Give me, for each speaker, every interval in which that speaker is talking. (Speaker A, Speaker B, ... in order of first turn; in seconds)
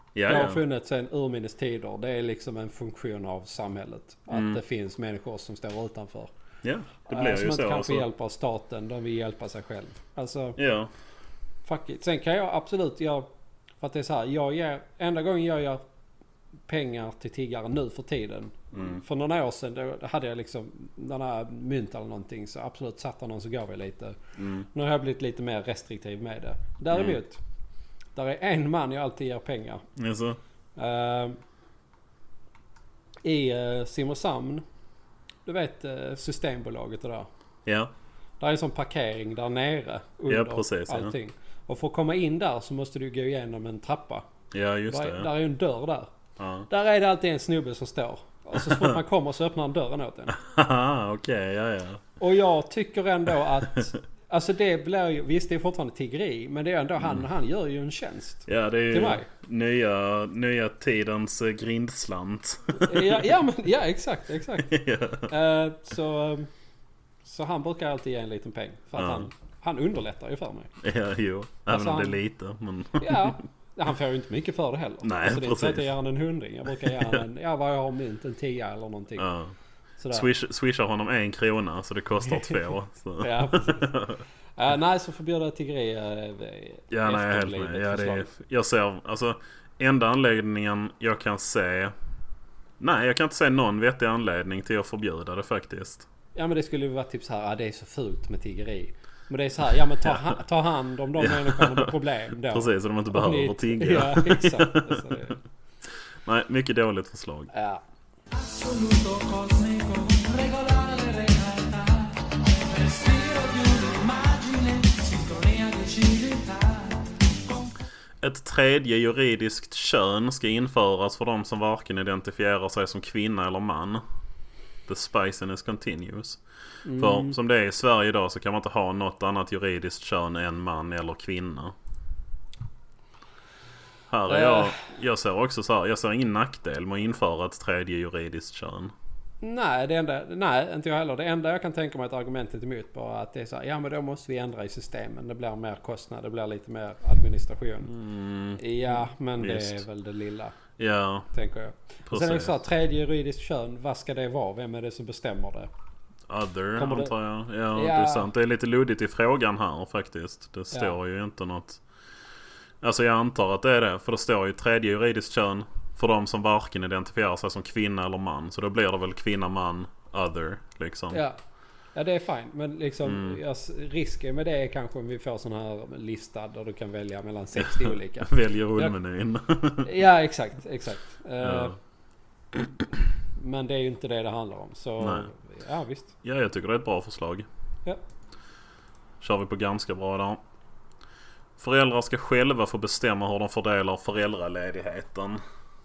Speaker A: 0.1-0.6, 4.3-4.6, 6.6-8.1, 10.6-10.9, 18.7-19.0, 24.4-24.7, 26.9-27.2, 29.9-30.4, 37.6-37.9, 40.3-41.1, 44.5-45.3, 46.4-46.7, 48.5-49.0, 50.3-52.0, 57.0-57.2, 58.5-63.3, 64.5-65.3, 69.0-69.3, 70.8-73.4, 75.0-75.8, 76.8-77.2, 79.2-79.5, 80.1-84.2, 86.9-91.9, 92.8-96.1, 101.2-105.2, 106.2-107.5, 118.2-124.0, 124.9-126.4, 126.9-131.7, 134.1-138.9, 147.9-149.8, 150.8-151.3, 152.1-152.5, 156.3-161.8, 162.8-171.2, 173.0-173.4, 177.6-179.9, 181.4-181.8, 185.0-185.3, 186.2-187.4, 189.2-190.4, 191.6-195.4
Speaker B: 0.3-6.3, 7.1-10.6, 11.6-13.3, 13.8-15.8, 16.7-24.2, 24.7-27.4, 28.1-29.8, 30.8-31.4, 33.2-34.6, 35.5-37.3, 38.4-44.2, 44.9-46.1, 46.7-50.4, 52.2-59.3, 62.8-66.5, 67.2-70.7, 71.7-72.2, 73.0-79.3, 80.0-80.3, 83.2-84.0, 84.6-88.3, 96.3-105.4, 107.5-107.8, 126.8-127.3, 134.3-134.8, 139.4-147.9, 148.6-150.6, 151.3-155.7, 156.8-157.1, 157.7-158.3, 171.1-171.4, 171.9-178.9, 179.8-181.8, 183.3-186.1
Speaker C: 108.3-117.7